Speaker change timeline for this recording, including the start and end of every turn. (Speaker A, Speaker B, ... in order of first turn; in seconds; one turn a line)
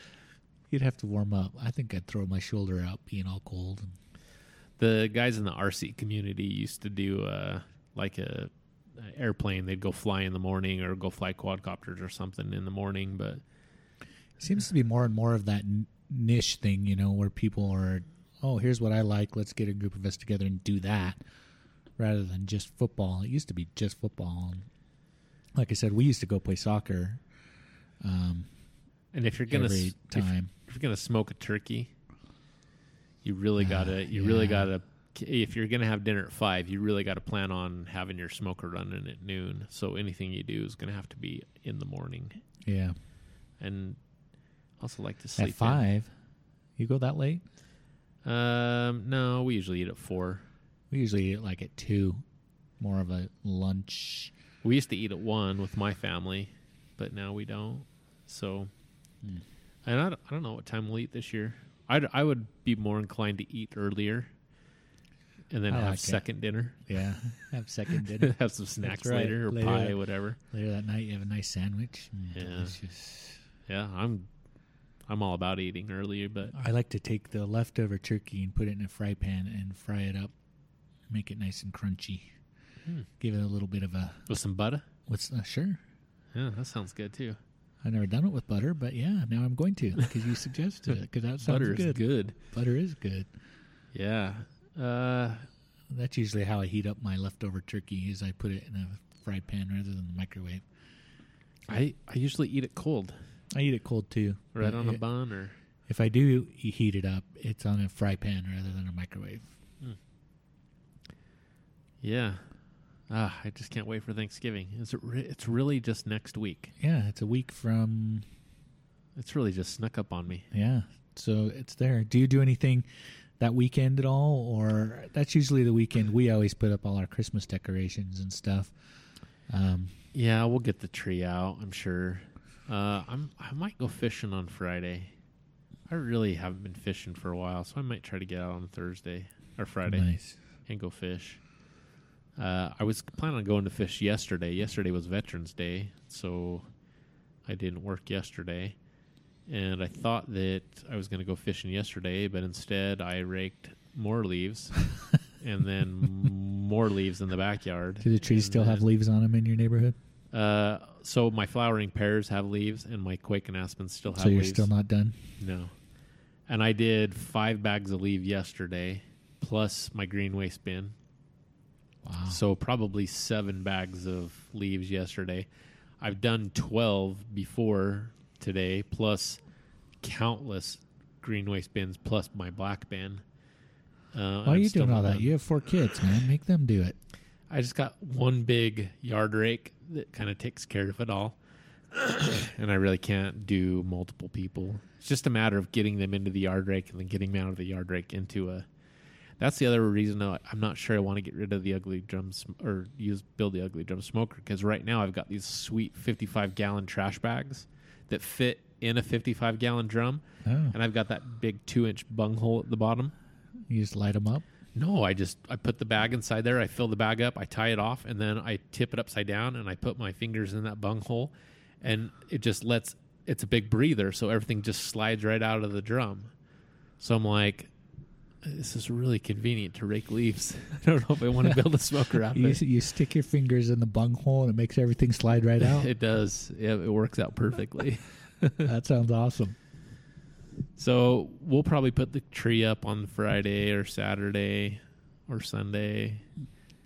Speaker A: 0.7-3.9
Speaker B: 4.8-13.4
Speaker A: 14.4-21.2
Speaker A: 22.0-24.7
Speaker A: 25.5-27.2
Speaker A: 28.0-28.5
Speaker B: 29.1-31.9
Speaker A: 29.5-30.5
Speaker B: 33.2-42.4
Speaker A: 33.6-34.7
Speaker A: 42.6-43.0
Speaker B: 43.6-44.0
Speaker B: 44.8-45.8
Speaker A: 45.4-46.1
Speaker A: 46.8-47.4
Speaker B: 48.2-50.5
Speaker A: 50.9-52.2
Speaker A: 52.8-54.3
Speaker B: 54.6-58.7
Speaker B: 59.9-64.3
Speaker B: 65.5-66.8
Speaker A: 65.7-73.4
Speaker B: 68.2-70.4
Speaker B: 72.3-72.8
Speaker B: 73.7-74.3
Speaker B: 75.1-76.6
Speaker A: 76.5-80.3
Speaker A: 81.1-82.3
Speaker A: 83.2-84.3
Speaker B: 84.3-84.8
Speaker A: 85.1-85.8
Speaker B: 86.3-87.4
Speaker A: 87.8-93.3
Speaker B: 91.4-92.3
Speaker B: 93.9-95.5
Speaker A: 95.9-100.6
Speaker B: 101.7-103.2
Speaker A: 103.5-105.0
Speaker B: 104.5-105.5
Speaker A: 105.9-109.5
Speaker B: 112.0-112.5
Speaker B: 113.1-116.7
Speaker A: 116.8-118.2
Speaker B: 119.2-120.5
Speaker A: 120.5-122.9
Speaker A: 123.4-128.7
Speaker A: 129.5-129.9
Speaker B: 130.1-135.1
Speaker B: 135.9-140.1
Speaker A: 139.9-140.4
Speaker B: 140.7-141.5
Speaker B: 142.4-146.7
Speaker B: 147.4-148.8
Speaker B: 149.5-154.8
Speaker B: 155.4-158.8
Speaker A: 158.0-160.0
Speaker B: 160.3-164.7
Speaker A: 164.1-165.2
Speaker B: 165.4-165.7
Speaker B: 166.5-170.9
Speaker A: 172.0-172.4
Speaker B: 172.3-175.5
Speaker B: 176.0-179.4
Speaker B: 180.0-183.2
Speaker B: 184.1-185.4
Speaker A: 184.4-187.0
Speaker B: 187.5-191.4
Speaker B: 191.9-198.7
Speaker B: 199.4-213.1
Speaker A: 210.4-210.8
Speaker A: 213.7-214.4
Speaker B: 214.8-226.3
Speaker B: 227.0-227.7
Speaker B: 228.4-232.6
Speaker A: 232.3-235.9
Speaker B: 235.6-238.7
Speaker A: 238.6-239.6
Speaker B: 240.8-246.2